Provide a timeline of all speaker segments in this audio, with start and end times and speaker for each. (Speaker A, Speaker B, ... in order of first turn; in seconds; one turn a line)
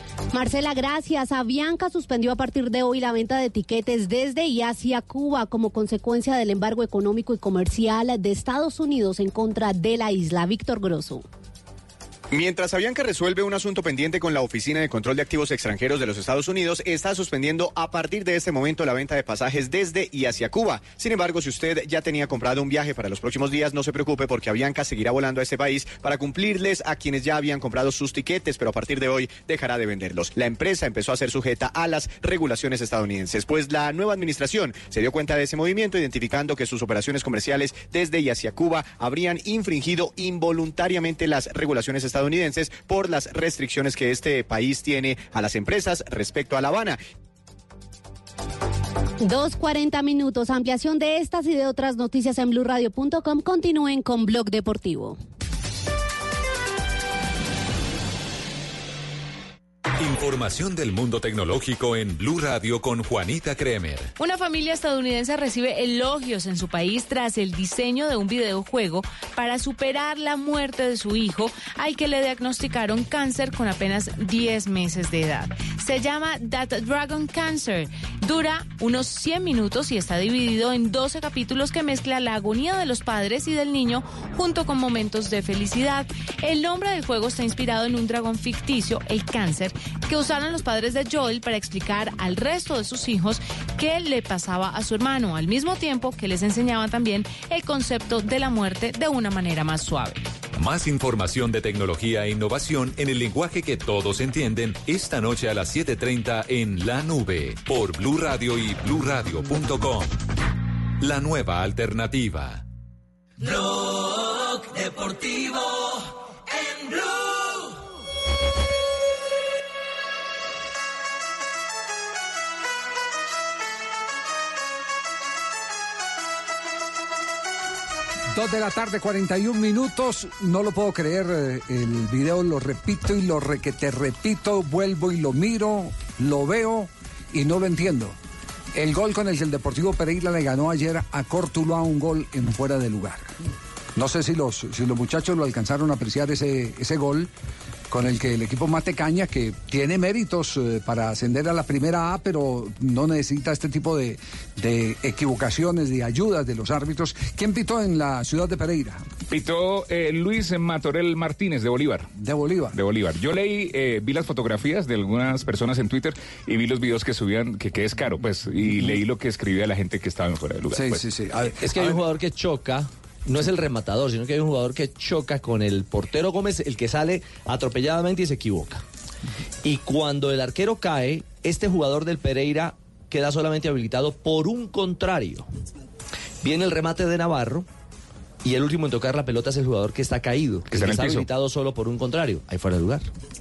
Speaker A: 0.3-11.2
Speaker B: 12.3-47.0
Speaker A: 49.2-55.2
Speaker C: 60.0-64.1
Speaker D: 64.2-100.3
Speaker C: 100.5-110.2
Speaker C: 111.0-112.6
Speaker E: 128.3-138.2
Speaker E: 138.7-143.3
Speaker E: 143.9-147.3
Speaker E: 147.9-159.1
Speaker F: 159.3-162.1
Speaker E: 162.2-162.8
Speaker F: 162.7-171.1
Speaker E: 170.7-172.0
Speaker G: 171.6-178.8
Speaker G: 179.6-185.5
Speaker G: 186.4-187.7
Speaker G: 188.4-193.1
Speaker F: 190.7-191.3